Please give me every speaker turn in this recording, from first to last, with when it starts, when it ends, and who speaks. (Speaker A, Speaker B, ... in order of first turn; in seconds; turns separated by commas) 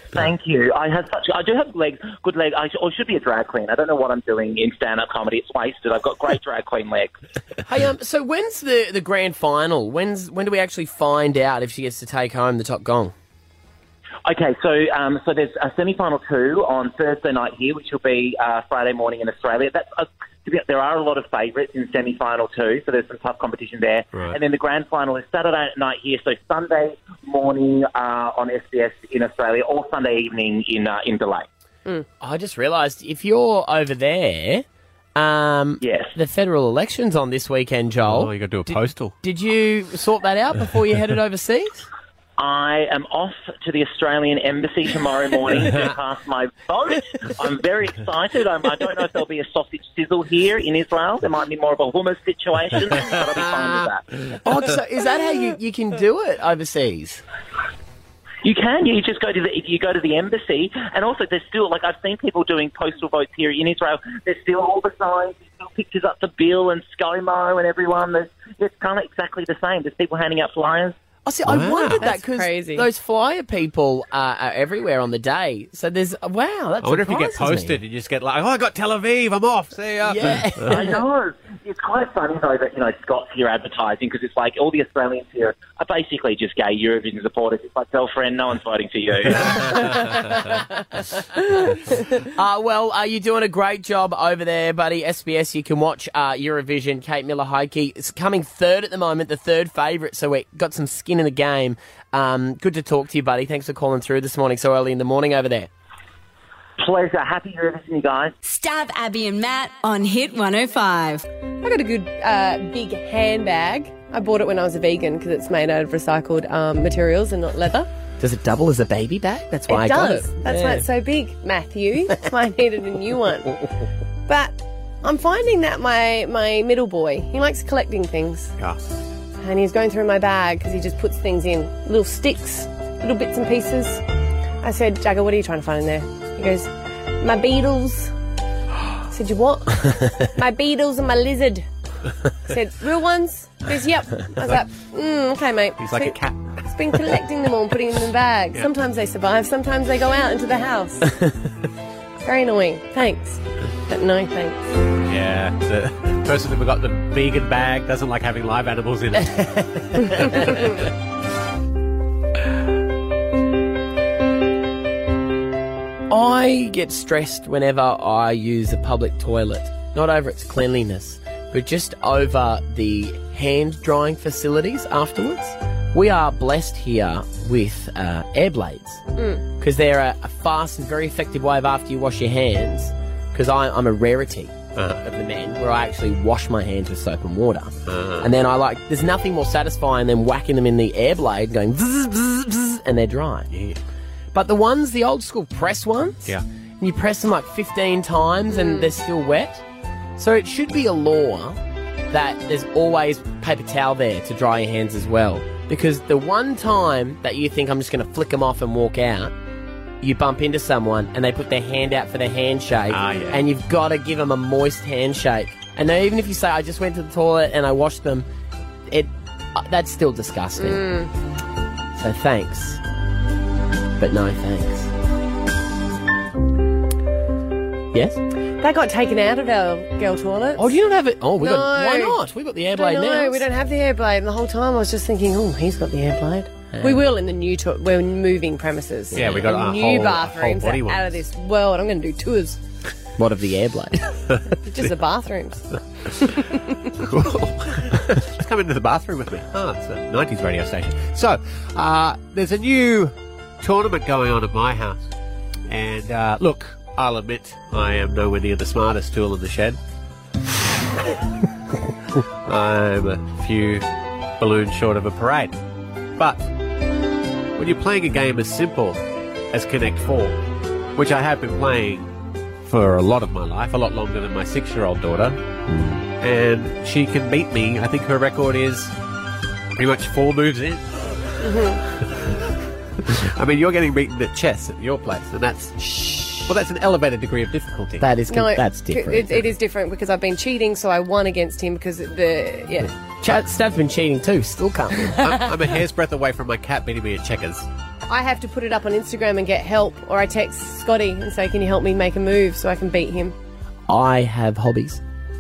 Speaker A: 0.1-7.1, Speaker B: 7.7-13.1, Speaker A: 14.2-31.5, Speaker C: 24.1-24.4, Speaker B: 32.2-41.9, Speaker A: 35.8-36.1, Speaker C: 38.0-39.2, Speaker A: 42.4-54.0, Speaker C: 53.0-53.9, Speaker B: 54.4-57.2, Speaker A: 58.4-70.9, Speaker B: 71.3-77.8, Speaker C: 71.5-72.1, Speaker D: 72.0-72.9, Speaker C: 76.8-80.8, Speaker B: 80.0-80.9, Speaker A: 80.7-89.9, Speaker C: 89.4-90.2, Speaker B: 92.3-105.7, Speaker A: 106.8-108.3, Speaker E: 108.4-111.2, Speaker D: 111.6-117.9, Speaker B: 118.2-120.8, Speaker D: 119.7-123.5, Speaker D: 124.3-128.5, Speaker D: 129.4-134.0, Speaker D: 134.6-138.1, Speaker D: 139.1-141.6, Speaker D: 142.5-151.1, Speaker C: 145.8-146.6, Speaker D: 152.2-154.7, Speaker C: 155.1-160.9, Speaker B: 166.1-179.0, Speaker D: 179.2-179.4, Speaker B: 179.6-193.5, Speaker C: 184.8-185.0, Speaker C: 187.9-188.3, Speaker C: 193.5-193.8, Speaker B: 194.3-199.6, Speaker D: 198.5-198.9, Speaker B: 200.2-201.6, Speaker B: 202.1-209.3, Speaker B: 210.0-218.3, Speaker C: 212.9-213.5, Speaker B: 218.9-220.9, Speaker D: 220.6-221.1, Speaker B: 221.9-222.8, Speaker B: 224.0-224.9, Speaker B: 227.9-228.2, Speaker D: 228.6-230.7, Speaker B: 230.6-233.4, Speaker D: 231.4-232.2, Speaker D: 232.7-242.6, Speaker B: 236.8-237.0, Speaker C: 239.1-241.2, Speaker B: 239.1-239.5, Speaker B: 243.2-244.1, Speaker D: 244.7-245.6, Speaker C: 247.1-255.1, Speaker C: 255.7-259.8, Speaker C: 262.4-263.9, Speaker C: 264.4-265.6, Speaker C: 266.2-266.5, Speaker C: 267.6-270.4, Speaker C: 270.9-272.1, Speaker C: 272.6-275.4, Speaker B: 275.7-276.0, Speaker C: 276.2-278.9, Speaker C: 279.8-280.8, Speaker D: 281.4-281.8, Speaker C: 283.1-285.8, Speaker B: 285.8-286.5, Speaker C: 286.5-288.1, Speaker B: 288.0-289.3, Speaker D: 288.3-292.9, Speaker B: 293.2-295.2, Speaker C: 295.2-297.7, Speaker D: 298.1-303.4, Speaker B: 303.9-305.0